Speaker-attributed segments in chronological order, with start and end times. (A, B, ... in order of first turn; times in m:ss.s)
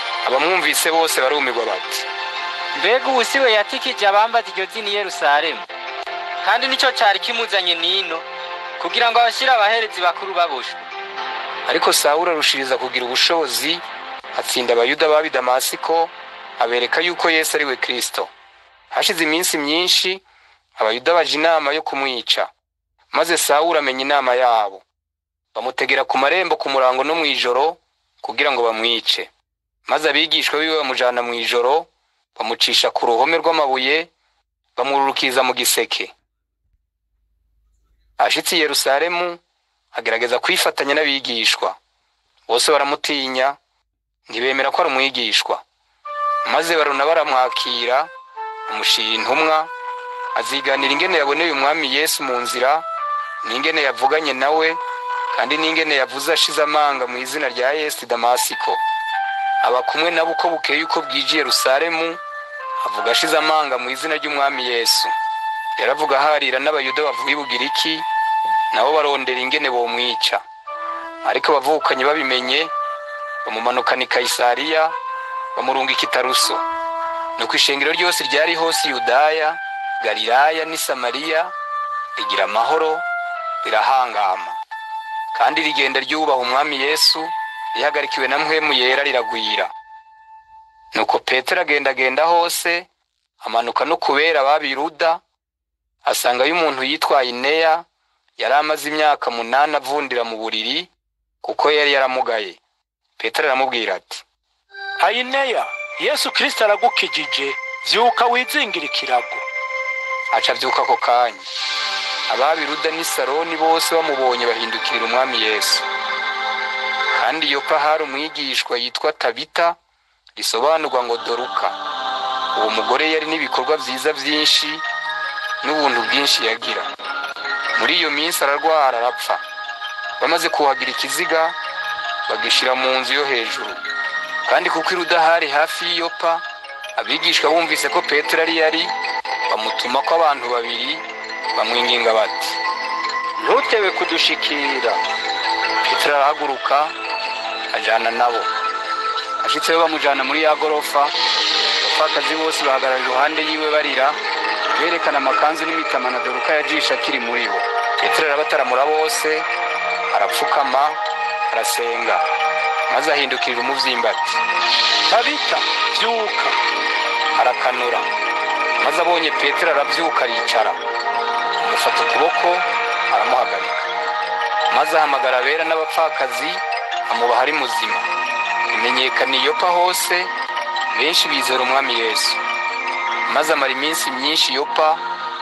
0:00.2-0:02.1 A
0:02.7-0:05.7 B
0:06.4-0:08.2 B
0:08.8-0:10.8 B
0:11.6-0:18.3 A
0:18.9-0:20.2 A
0:20.8-0:22.5 A
0:23.1-0:24.8 A
0:25.5-0:29.3 A
0:29.8-0:34.1 A
0:34.8-0:36.1 A
0:38.2-0:39.4 A
0:39.9-0:41.8 A
0:42.5-0:43.6 A
0:44.3-0:45.6 A
0:46.4-0:48.1 A
0:48.7-0:49.7 A
0:50.3-0:52.8 A
0:53.4-0:54.8 A
0:55.3-0:58.8 A
0:59.6-1:02.2 A
1:02.8-1:05.1 A
1:05.8-1:08.0 A
1:08.7-1:10.4 A
1:11.2-1:12.7 A
1:13.4-1:14.9 A
1:15.5-1:16.6 A
1:17.4-1:21.5 A
1:22.2-1:23.0 A
1:23.6-1:24.6 A
1:25.3-1:29.7 A
1:30.9-1:32.9 A
1:33.4-1:35.2 A
1:36.0-1:37.8 A
1:38.4-1:40.9 A
1:41.4-1:42.6 A
1:43.2-1:44.2 A
1:45.0-1:49.4 C
1:50.3-1:51.4 A
1:52.3-1:55.8 A
1:57.1-1:59.8 A
2:00.4-2:01.8 A
2:02.5-2:04.8 A
2:05.6-2:06.9 A
2:07.7-2:09.4 A
2:10.2-2:11.6 A
2:12.3-2:13.8 A
2:14.4-2:16.4 A
2:16.9-2:18.9 A
2:19.5-2:22.6 A
2:23.4-2:25.0 B
2:24.1-2:24.9 A
2:25.8-2:26.9 A
2:27.7-2:28.5 A
2:29.4-2:31.1 A
2:31.8-2:34.2 A
2:34.7-2:39.5 A
2:40.1-2:41.0 A
2:41.5-2:42.2 A
2:42.9-2:44.4 A
2:45.1-2:46.6 C
2:47.3-2:48.1 A
2:48.8-2:50.8 A
2:51.6-2:53.9 A
2:54.7-2:58.1 A
2:58.7-3:00.3 A
3:00.9-3:02.4 A
3:03.3-3:05.0 A